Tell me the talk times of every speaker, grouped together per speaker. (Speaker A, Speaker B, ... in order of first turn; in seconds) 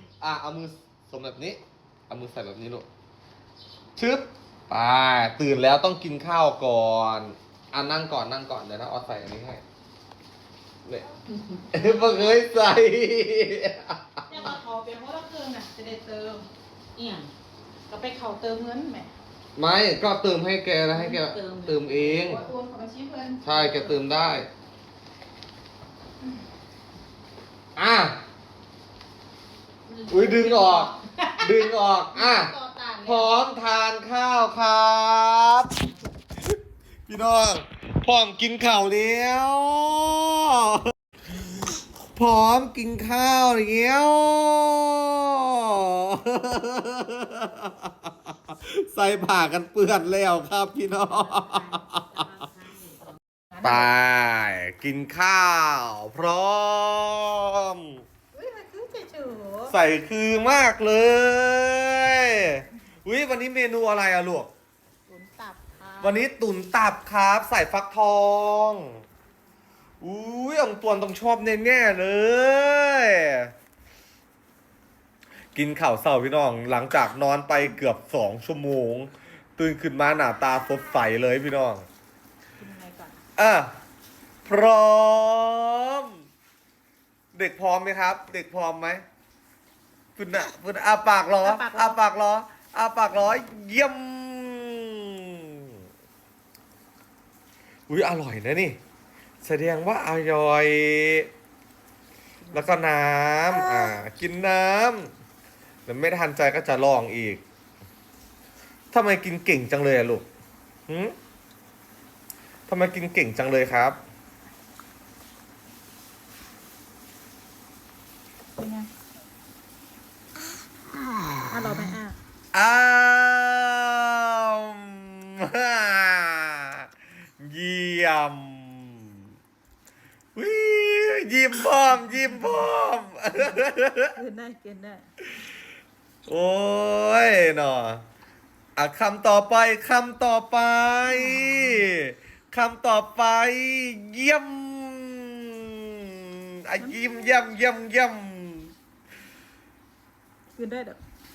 Speaker A: 0.2-2.9, 4.0-9.6, 11.7-14.2, 19.6-22.4, 23.4-24.5, 27.8-28.2, 30.1-35.7, 37.1-40.9, 41.6-52.4, 53.6-58.0, 59.7-64.5, 66.0-69.0, 70.0-73.5, 75.5-81.9, 83.4-83.7, 84.5-86.1, 87.3-89.0, 90.2-95.7, 97.9-98.8, 99.4-101.3, 102.5-105.1, 105.9-107.4, 108.9-110.2, 110.9-111.2, 112.7-114.0, 122.5-126.9, 127.4-129.1, 130.4-134.2, 136.3-138.0, 138.8-148.7
Speaker B: 11.8-12.4, 14.3-16.5, 17.9-19.1, 22.1-24.0, 31.6-33.3, 53.5-53.9, 58.4-59.7, 65.1-66.2, 82.6-83.2, 91.4-92.0, 102.4-102.8, 118.6-118.9, 121.5-122.2, 134.2-135.1, 141.1-141.9, 146.8-147.5, 150.6-151.0
Speaker C: 17.0-17.3, 20.9-22.3, 29.9-31.0, 51.2-53.2